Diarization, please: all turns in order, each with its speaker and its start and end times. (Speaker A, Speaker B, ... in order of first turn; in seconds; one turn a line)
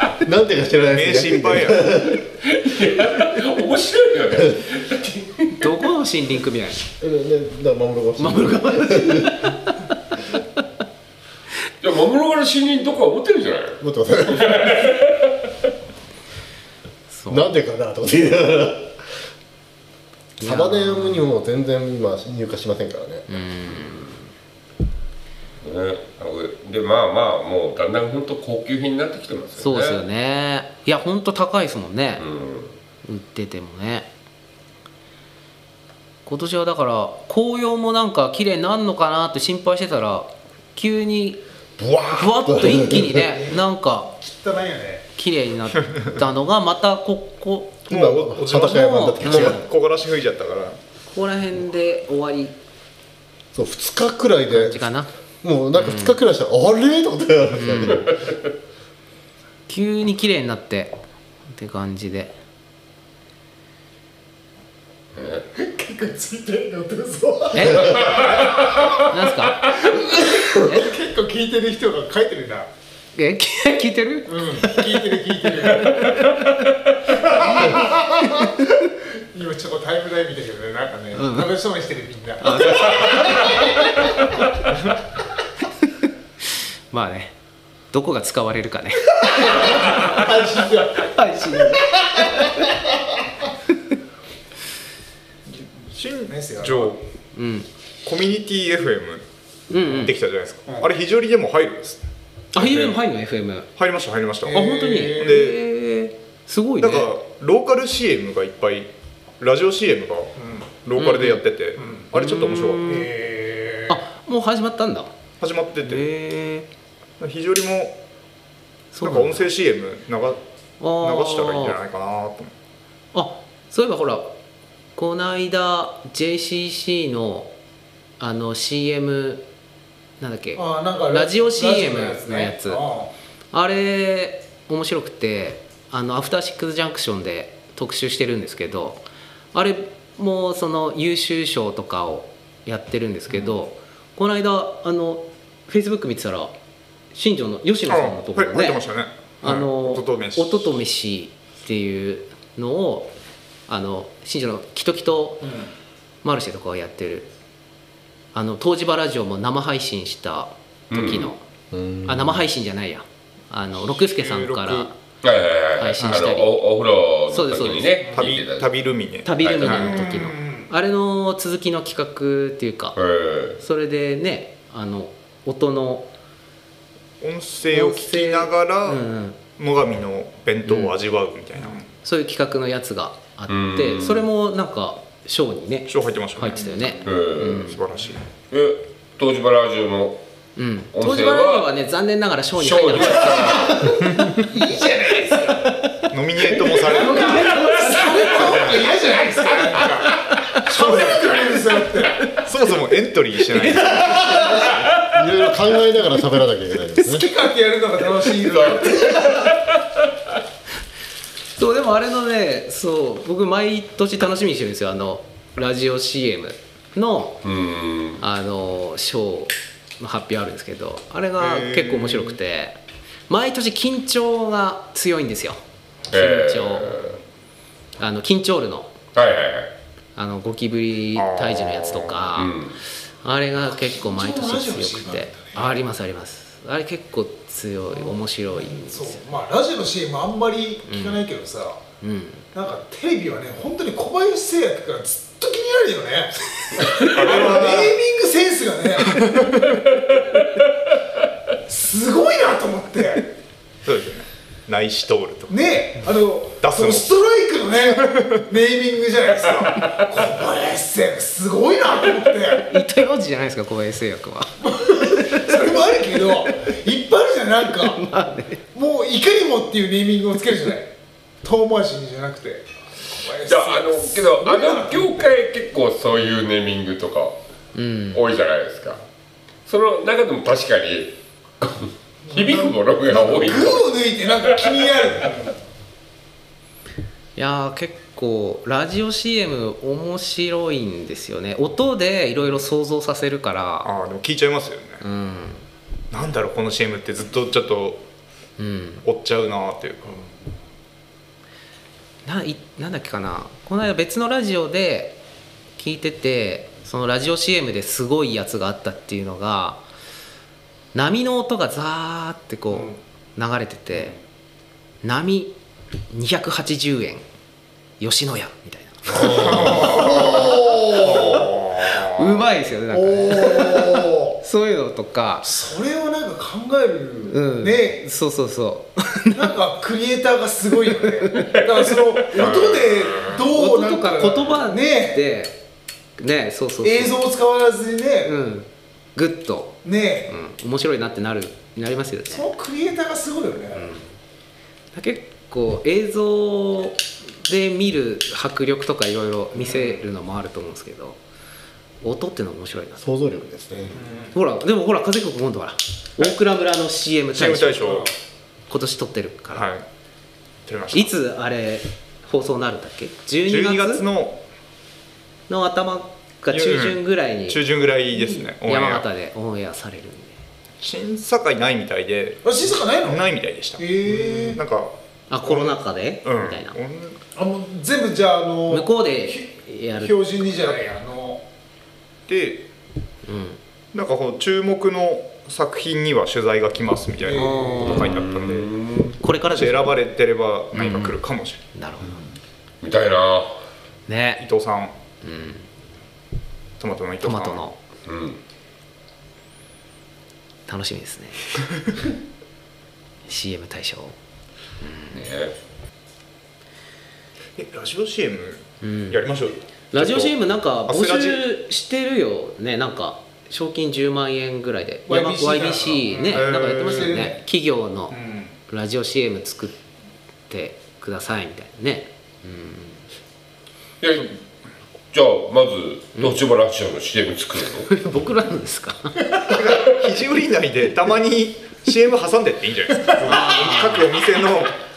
Speaker A: 0.2-2.2
Speaker B: 0.9-1.9
Speaker C: 2.4-5.7
Speaker D: 5.6-6.8
Speaker A: 7.0-9.4
Speaker D: 8.2-9.9
Speaker C: 11.8-15.5
Speaker A: 13.8-14.9
Speaker D: 17.1-17.5
Speaker A: 17.3-19.0
Speaker D: 20.4-21.2
Speaker A: 20.4-23.4
Speaker D: 23.3-24.2
Speaker C: 25.6-30.0
Speaker D: 29.6-32.2
Speaker C: 32.2-32.8
Speaker D: 33.0-34.1
Speaker D: 36.3-41.4
Speaker A: 41.8-43.3
Speaker D: 42.1-44.1
Speaker E: 43.1-45.1
Speaker D: 45.2-47.9
Speaker A: 47.9-49.6
Speaker B: 47.9-50.8
Speaker D: 48.6-49.7
Speaker D: 51.1-52.6
Speaker A: 53.5-54.9
Speaker D: 54.5-55.1
Speaker A: 55.4-58.3
Speaker D: 55.8-56.1
Speaker D: 57.6-58.1
Speaker D: 59.7-61.0
Speaker D: 61.5-62.3
Speaker C: 65.2-65.4
Speaker E: 65.5-68.8
Speaker D: 67.5-68.2
Speaker C: 67.9-68.5
Speaker D: 69.1-69.8
Speaker E: 69.7-72.7
Speaker D: 73.2-75.1
Speaker E: 74.3-76.3
Speaker D: 75.6-76.5
Speaker E: 77.1-78.6
Speaker D: 77.7-78.5
Speaker E: 79.2-83.8
Speaker D: 81.2-81.5
Speaker D: 82.4-83.6
Speaker D: 86.9-87.3
Speaker D: 87.9-90.2
Speaker E: 89.3-92.3
Speaker D: 91.0-92.7
Speaker B: 95.6-97.0
Speaker E: 96.3-97.0
Speaker D: 97.3-97.7
Speaker B: 98.0-99.2
Speaker D: 99.7-100.1
Speaker B: 99.8-103.0
Speaker D: 102.5-103.7
Speaker B: 103.8-105.6
Speaker E: 104.5-105.4
Speaker D: 104.5-107.1
Speaker B: 106.8-108.9
Speaker B: 109.4-112.9
Speaker E: 110.4-110.7
Speaker D: 111.0-111.4
Speaker E: 111.8-112.1
Speaker D: 112.1-113.1
Speaker E: 112.8-114.0
Speaker D: 113.9-115.1
Speaker B: 115.4-116.1
Speaker D: 115.8-116.7
Speaker B: 117.2-118.0
Speaker D: 118.9-119.5
Speaker B: 119.0-120.4
Speaker D: 120.8-121.8
Speaker B: 121.0-122.5
Speaker D: 123.1-124.3
Speaker D: 125.0-127.5
Speaker D: 128.2-129.4
Speaker D: 130.2-132.8
Speaker E: 130.6-133.1
Speaker D: 133.5-146.5
Speaker D: 147.1-148.8
Speaker B: 147.9-150.7
Speaker D: 149.4-153.1
Speaker D: 153.7-155.6
Speaker D: 156.2-157.3
Speaker D: 158.3-161.4
Speaker C: 160.9-161.3
Speaker A: 161.7-162.4
Speaker D: 162.1-164.9
Speaker B: 163.8-164.9
Speaker C: 165.2-168.7
Speaker D: 165.8-166.5
Speaker D: 167.3-168.1
Speaker B: 168.1-170.3
Speaker D: 169.2-173.0
Speaker C: 169.4-170.1
Speaker E: 170.1-170.7
Speaker C: 173.0-173.6
Speaker D: 173.6-176.1
Speaker B: 177.2-181.9
Speaker D: 177.7-179.4
Speaker D: 180.7-180.9
Speaker D: 182.0-187.8
Speaker C: 183.5-184.3
Speaker B: 185.9-188.2
Speaker C: 187.0-187.7
Speaker C: 188.5-190.2
Speaker D: 190.6-194.5
Speaker C: 190.9-191.7
Speaker C: 192.6-193.9
Speaker E: 194.2-195.7
Speaker D: 195.3-195.9
Speaker B: 196.1-197.4
Speaker D: 196.7-198.8
Speaker E: 196.8-202.3
Speaker D: 200.1-200.7
Speaker B: 200.8-201.2
Speaker B: 202.4-204.4
Speaker D: 203.5-204.8
Speaker A: 204.9-207.3
Speaker E: 207.0-209.3
Speaker C: 208.5-209.6
Speaker D: 211.6-217.4
Speaker C: 217.4-218.2
Speaker D: 218.2-222.8
Speaker B: 221.4-222.4
Speaker D: 223.3-227.2
Speaker C: 226.1-227.2
Speaker D: 228.0-228.9
Speaker C: 229.2-229.7
Speaker D: 230.2-232.6
Speaker B: 231.2-232.3
Speaker C: 232.3-232.8
Speaker D: 233.2-239.2
Speaker E: 233.6-235.8
Speaker E: 237.9-241.8
Speaker D: 240.9-241.3
Speaker D: 242.0-242.4
Speaker E: 242.5-249.5
Speaker D: 246.7-247.0
Speaker B: 247.0-248.0
Speaker E: 251.7-253.3
Speaker B: 253.8-255.6
Speaker E: 255.5-262.7
Speaker B: 256.6-257.1
Speaker B: 257.8-258.5
Speaker D: 262.6-265.8
Speaker E: 264.6-268.0
Speaker D: 267.8-268.6
Speaker E: 268.7-270.9
Speaker E: 271.4-275.2
Speaker C: 273.4-277.4
Speaker D: 277.8-278.2
Speaker C: 278.1-279.0
Speaker C: 279.7-284.0
Speaker E: 282.3-285.6
Speaker D: 287.4-293.9
Speaker B: 293.8-295.0
Speaker D: 295.0-295.6
Speaker B: 296.1-298.0
Speaker D: 298.6-299.0
Speaker B: 299.0-300.3
Speaker D: 302.2-305.2
Speaker D: 305.8-309.8
Speaker D: 310.9-314.2
Speaker D: 315.0-315.6
Speaker D: 316.1-317.2
Speaker D: 318.0-325.5
Speaker B: 319.2-322.4
Speaker E: 319.8-321.5
Speaker E: 322.9-324.4
Speaker E: 325.4-328.1
Speaker D: 327.3-329.5
Speaker E: 329.3-335.2
Speaker D: 331.0-331.6
Speaker C: 332.3-333.3
Speaker D: 333.5-335.6
Speaker D: 336.2-337.2
Speaker E: 336.8-338.4
Speaker D: 338.2-342.5
Speaker E: 339.8-340.3
Speaker E: 342.3-343.9
Speaker D: 343.7-344.1
Speaker D: 344.9-351.2
Speaker D: 352.0-353.0
Speaker A: 353.0-354.0
Speaker E: 354.0-354.3
Speaker D: 354.3-358.1
Speaker B: 357.3-358.1
Speaker D: 358.7-359.7
Speaker B: 359.5-359.9
Speaker B: 360.7-361.1
Speaker D: 360.9-364.1
Speaker B: 363.4-364.4
Speaker D: 365.5-367.6
Speaker B: 366.5-369.1
Speaker D: 368.1-370.4
Speaker B: 370.8-377.2
Speaker E: 372.4-374.6
Speaker D: 375.3-376.8
Speaker E: 377.4-381.4
Speaker D: 378.7-380.4
Speaker B: 382.3-382.7
Speaker D: 383.3-383.6
Speaker B: 383.9-388.7
Speaker E: 387.2-388.0
Speaker D: 387.3-388.1
Speaker C: 387.8-389.2
Speaker D: 389.2-390.0
Speaker B: 389.5-391.6
Speaker D: 390.7-391.2
Speaker D: 391.7-392.2
Speaker C: 392.8-393.6
Speaker D: 394.1-394.4
Speaker B: 394.4-394.9
Speaker D: 395.2-395.7
Speaker B: 396.8-397.7
Speaker D: 397.2-397.8
Speaker C: 398.1-398.4
Speaker D: 400.7-401.5
Speaker D: 403.3-404.2
Speaker D: 404.8-405.2
Speaker C: 405.1-405.5
Speaker B: 407.6-411.4
Speaker D: 408.8-409.2
Speaker D: 409.9-419.8
Speaker E: 415.1-417.4
Speaker B: 416.3-417.2
Speaker E: 418.1-418.5
Speaker D: 420.5-423.0
Speaker C: 424.0-424.4
Speaker C: 425.1-427.9
Speaker D: 427.9-429.3
Speaker B: 429.4-434.8
Speaker D: 433.2-434.1